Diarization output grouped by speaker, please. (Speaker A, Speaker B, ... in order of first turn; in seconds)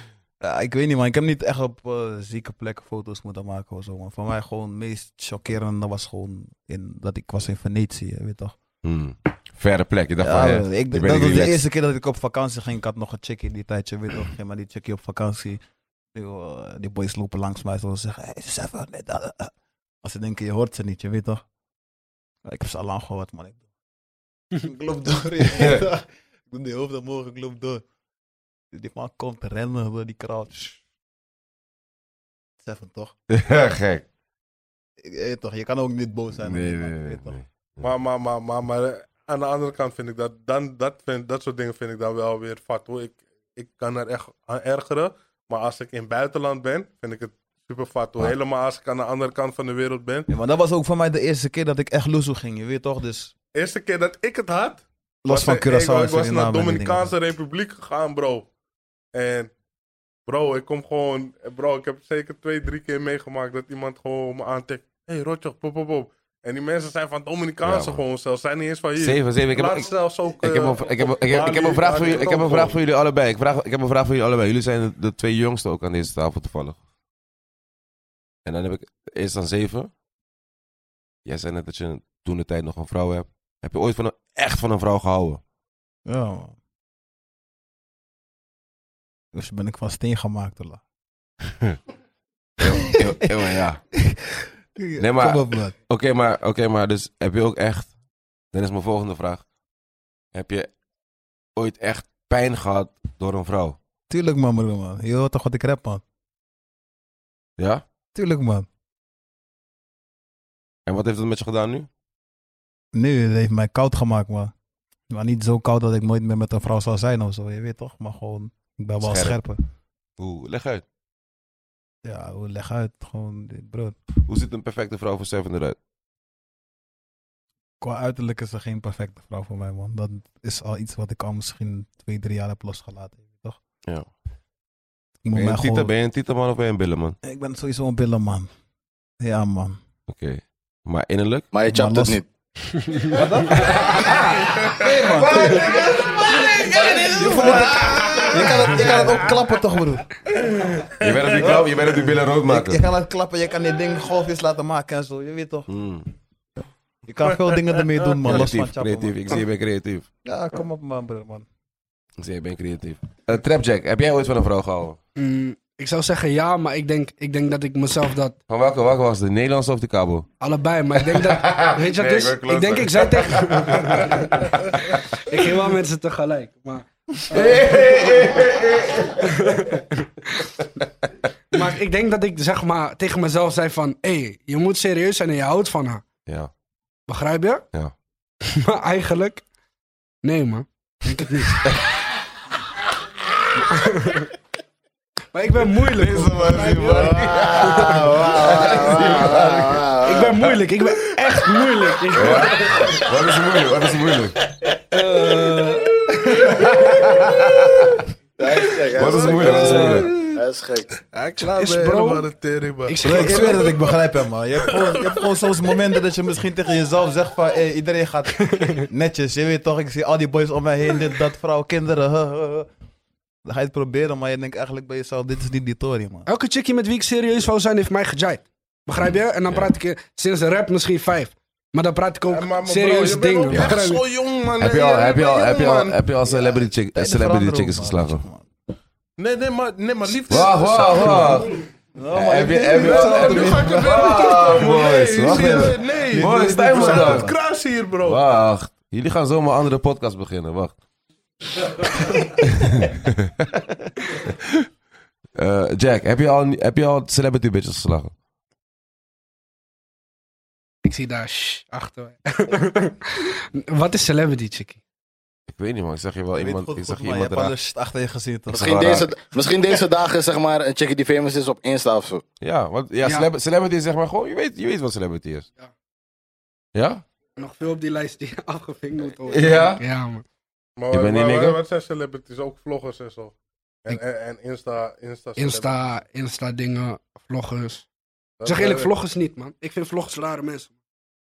Speaker A: 0.4-8.6, 10.2-15.6, 16.1-21.4, 22.4-23.6, 24.6-27.9, 28.7-30.8, 32.6-33.1, 35.0-37.4, 50.3-53.3, 55.2-57.1, 86.1-86.6, 89.3-90.8, 93.9-95.8, 104.1-106.0, 108.1-108.7, 112.9-114.5, 115.1-119.6, 122.0-124.0, 127.8-133.6, 135.2-135.9, 137.2-138.5, 139.2-139.8, 141.7-142.2, 143.1-146.2, 147.0-150.1, 152.5-155.7, 157.1-159.4, 160.2-161.5, 213.0-222.7, 223.4-226.3, 236.3-238.5, 242.0-244.7, 245.3-247.3, 266.4-269.0
Speaker B: 8.8-11.6, 33.3-34.0, 36.4-37.9, 67.6-68.0, 69.0-76.8, 78.5-79.9, 81.2-85.4, 92.6-93.8, 95.0-97.9, 98.5-99.4, 100.3-100.7, 101.6-103.8, 107.6-107.8, 110.9-111.9, 119.0-119.4, 120.2-120.8, 124.2-125.8, 135.3-137.2, 140.1-141.5, 143.6-149.0, 151.0-152.8, 155.7-156.1, 158.2-160.1, 162.2-165.0, 168.5-170.3, 171.1-175.4, 177.3-179.6, 186.3-186.5, 195.9-200.5, 202.1-204.4, 206.5-208.0, 208.9-210.2, 229.0-229.7, 233.5-233.8, 234.6-238.2, 240.3-241.6, 242.1-247.3, 248.0-250.8, 252.2-254.5, 255.4-258.1, 265.5-267.5, 268.6-269.1, 272.4-275.5, 276.8-277.0, 279.3-279.8, 280.9-281.6
Speaker C: 37.8-50.3, 53.5-58.5, 59.1-59.5, 60.3-72.8, 146.7-149.3, 150.3-151.6, 211.5-213.4, 214.7-215.2, 232.3-236.0, 239.2-241.4, 242.7-248.2, 280.8-283.3, 283.9-285.8, 288.4-288.9
Speaker D: 141.5-142.2, 196.8-200.5, 208.4-210.9, 268.5-272.2
Speaker E: 165.2-168.4, 170.4-178.4, 179.2-180.5, 181.5-186.1, 187.1-187.6, 188.4-189.4, 190.2-191.7, 193.7-194.3, 195.3-198.2, 200.0-203.0, 204.9-207.2, 209.2-210.4, 211.1-212.3, 212.9-213.9, 218.4-218.8, 226.3-234.1, 260.8-264.8, 273.0-273.3, 277.4-280.2, 285.4-287.9, 288.4-290.8